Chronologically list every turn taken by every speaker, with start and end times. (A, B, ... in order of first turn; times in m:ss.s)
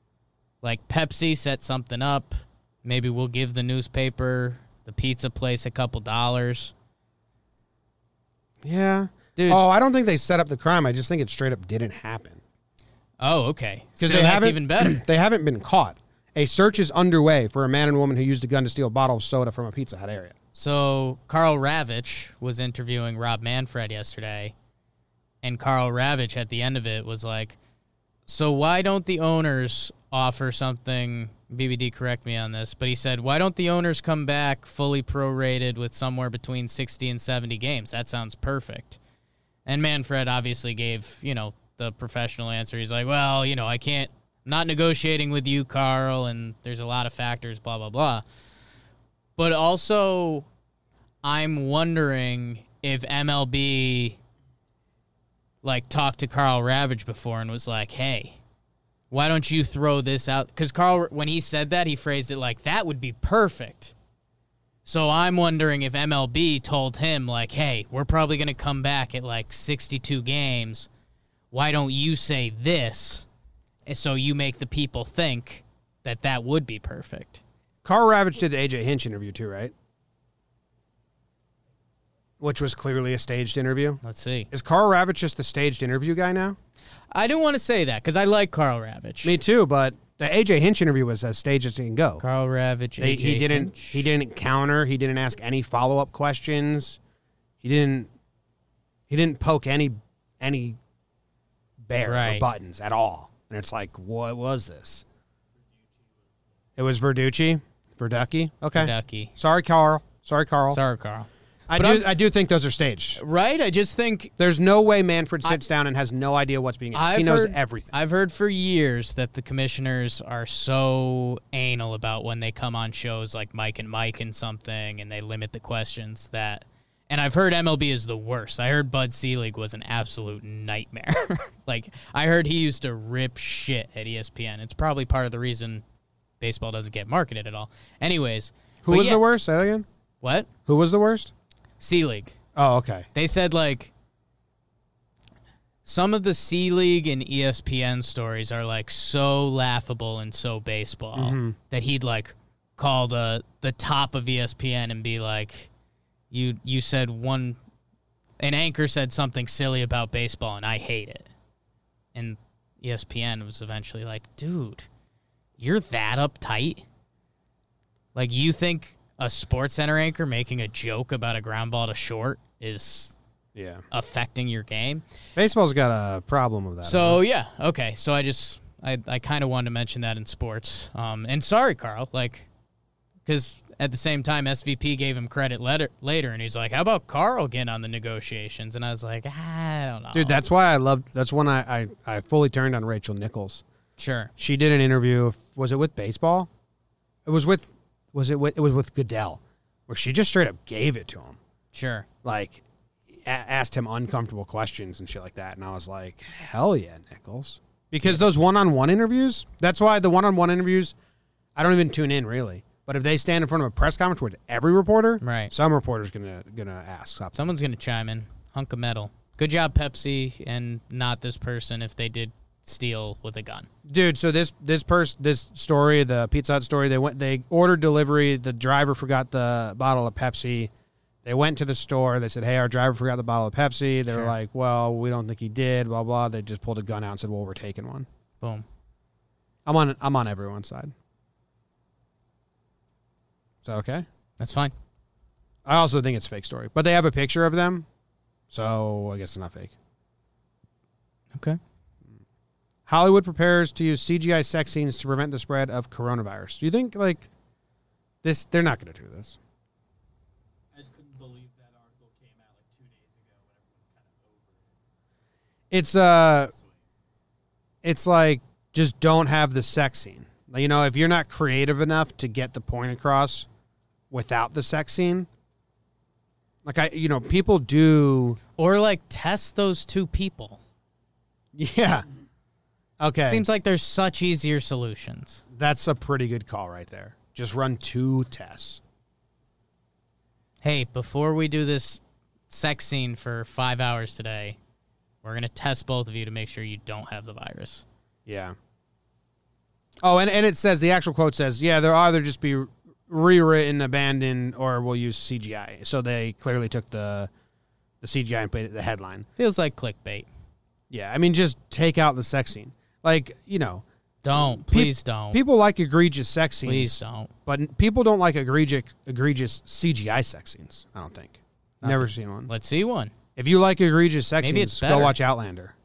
0:00.6-0:06.7 A
0:08.6-0:12.4 B
0:09.4-0:09.6 A
0:13.2-0:15.0 A
0:14.0-0:20.4 B
0:20.5-0:24.5 A
0:25.4-0:27.6 A
0:28.3-0:39.0 A
0:39.7-0:48.2 A
0:49.4-0:50.5 A
0:51.2-0:54.2 A
0:55.6-0:58.4 A
0:59.1-1:03.9 A
1:04.8-1:10.9 A
1:11.5-1:13.3 A
1:13.9-1:17.4 A
1:17.8-1:19.7 B
1:22.4-1:26.6 B
1:24.0-1:24.5 A
1:27.1-1:29.4 A
1:29.2-1:32.2 B
1:32.2-1:34.1 A
1:33.0-1:37.0 B
1:37.6-1:38.1 B
1:39.1-1:40.8 B
1:41.9-1:45.0 B
1:42.0-1:42.5 A
1:45.6-1:46.4 C
1:46.8-1:50.8 B
1:48.8-1:49.3 A
1:50.7-1:52.1 A
1:51.7-1:53.2 B
1:53.2-1:54.3 A
1:54.4-1:57.9 B
1:56.9-2:15.8 A
2:16.4-2:19.2 A
2:18.8-2:19.9 B
2:20.2-2:20.5 A
2:20.7-2:21.3 B
2:21.8-2:22.4 A
2:22.6-2:23.1 B
2:23.1-2:23.9 A
2:25.8-2:35.7 A
2:31.2-2:31.6 B
2:36.3-2:37.6 A
2:38.4-2:41.3 A
2:42.2-2:44.9 A
2:45.6-2:46.8 A
2:48.2-2:53.2 A
2:53.6-2:53.8 B
2:53.9-2:55.0 A
2:55.4-2:57.2 B
2:56.8-3:02.5 A
3:03.3-3:10.4 A
3:10.1-3:13.6 B
3:14.0-3:14.3 A
3:14.4-3:16.5 B
3:17.3-3:21.4 B
3:21.7-3:22.1 A
3:22.2-3:31.0 B
3:31.6-3:37.5 B
3:35.2-3:35.5 A
3:37.4-3:43.7 A
3:43.8-3:50.7 B
3:51.2-3:58.1 B
3:54.1-3:54.3 A
3:59.6-4:00.9 B
4:03.6-4:04.1 B
4:04.4-4:04.7 A
4:05.7-4:07.9 B
4:08.5-4:09.7 B
4:11.3-4:11.6 A
4:12.9-4:17.3 B
4:18.2-4:19.4 B
4:20.7-4:24.8 C
4:25.7-4:26.5 B
4:26.2-4:26.8 C
4:27.8-4:33.5 B
4:34.1-4:35.3 B
4:36.6-4:38.4 B
4:38.6-4:40.6 A
4:41.6-4:42.1 B
4:43.0-4:43.4 B
4:43.2-4:45.4 A
4:45.5-4:48.8 B
4:50.6-4:54.6 A
4:55.2-4:57.8 A
4:58.3-4:58.6 B
5:00.0-5:07.3 B
5:08.0-5:09.3 B
5:09.4-5:10.3 A
5:10.9-5:22.5 B
5:14.2-5:15.4 A
5:16.6-5:17.3 A
5:21.8-5:23.1 A
5:23.4-5:25.8 B
5:24.4-5:25.2 A